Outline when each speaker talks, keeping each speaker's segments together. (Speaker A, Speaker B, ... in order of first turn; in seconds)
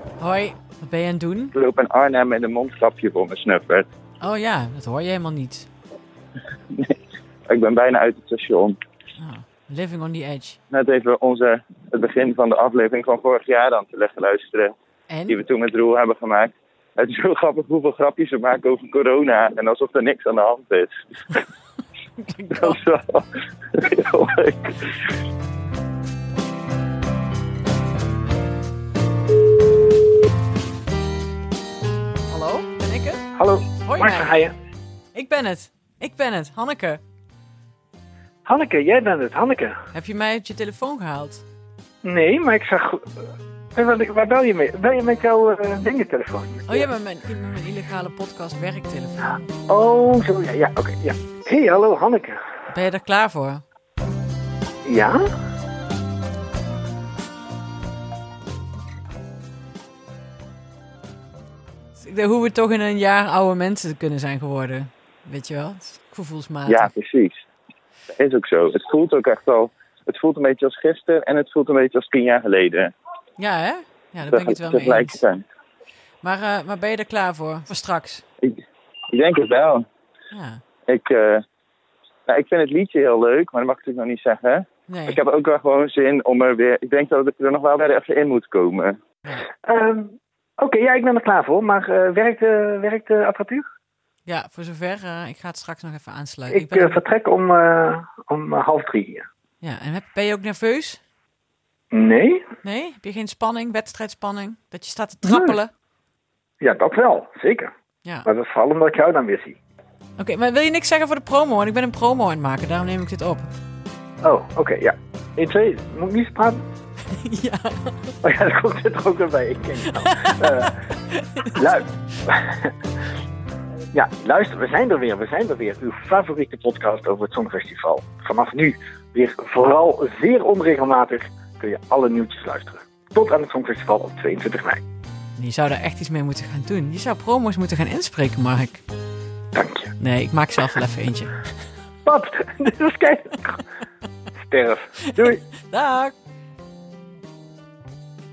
Speaker A: 0.2-1.6, 4.2-5.7, 9.2-10.6, 15.1-15.4, 22.2-22.8, 32.3-33.3, 33.8-34.3, 35.1-37.0, 39.9-41.4, 46.7-49.4, 52.7-53.6, 62.0-66.9, 73.4-75.2, 76.2-78.2, 80.3-80.6, 84.9-85.2, 94.3-97.0, 99.6-101.0, 102.6-105.7, 110.2-113.5, 117.1-118.1, 120.0-121.6, 135.4-138.8, 140.0-141.3, 145.2-146.1
Speaker B: 1.6-3.9, 7.5-8.8, 10.7-14.8, 15.3-20.9, 22.5-25.0, 66.7-67.4, 68.2-72.9, 74.3-75.4, 79.1-79.9, 80.9-81.4, 82.3-89.0
Speaker C: 33.4-34.5, 38.5-39.8, 42.0-43.2, 43.7-46.9, 49.7-52.4, 54.9-55.2, 89.6-93.6, 96.5-99.2, 101.9-102.4, 105.2-105.6, 106.6-107.7, 108.3-109.6, 114.2-116.6, 118.2-120.8, 121.5-122.7, 123.9-134.8, 139.5-139.9, 142.1-143.6, 144.4-145.4